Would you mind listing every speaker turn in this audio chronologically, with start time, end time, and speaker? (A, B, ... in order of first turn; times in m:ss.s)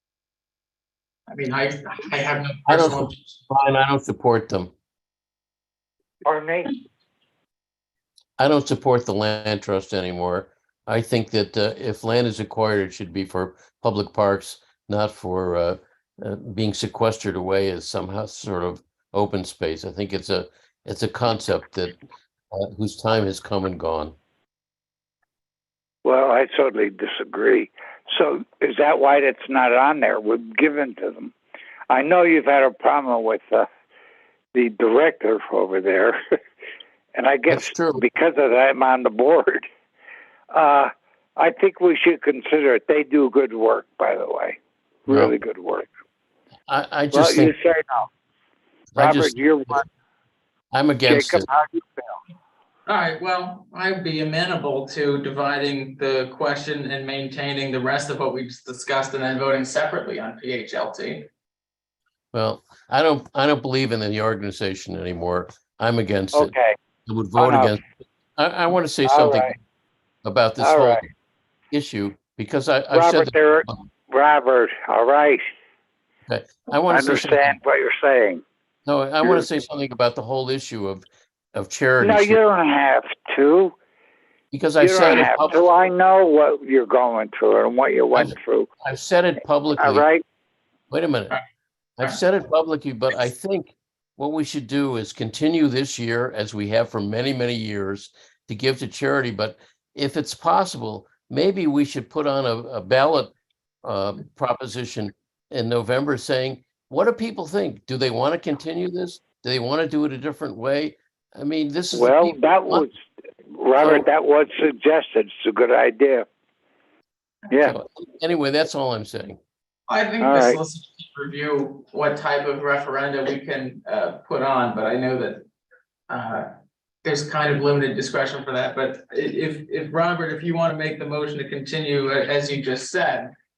0:01.3-0:03.2 A
0:02.7-0:04.7 B
0:06.2-0:06.7 C
0:08.4-0:22.0 B
0:22.5-0:24.2 B
0:26.0-0:31.3 C
0:31.9-0:33.7 C
0:34.5-0:36.2 C
0:37.2-0:39.7 C
0:37.5-0:38.0 B
0:40.5-0:45.9 C
0:45.1-0:45.3 B
0:46.7-0:47.5 B
0:47.1-0:48.1 C
0:48.9-0:49.8 B
0:49.0-0:49.9 C
0:50.7-0:51.5 B
0:51.1-0:52.2 C
0:52.9-1:01.3 A
1:02.3-1:06.5 B
1:06.3-1:06.8 C
1:07.1-1:07.8 B
1:07.4-1:07.8 C
1:08.4-1:09.5 B
1:09.1-1:09.6 C
1:10.2-1:11.1 B
1:10.6-1:11.1 C
1:11.7-1:13.8 B
1:12.9-1:15.4 C
1:16.3-1:17.6 B
1:16.9-1:18.4 C
1:18.9-1:22.4 B
1:22.0-1:23.7 C
1:24.5-1:25.6 B
1:24.8-1:28.7 C
1:28.2-1:30.1 B
1:29.8-1:30.2 C
1:30.9-1:31.4 B
1:32.0-1:52.9 B
1:51.9-1:53.0 C
1:53.5-1:56.3 C
1:53.8-1:54.1 B
1:57.6-1:59.4 B
1:59.9-2:05.4 A
2:00.2-2:00.6 C
2:06.1-2:06.5 A
2:07.0-2:13.3 A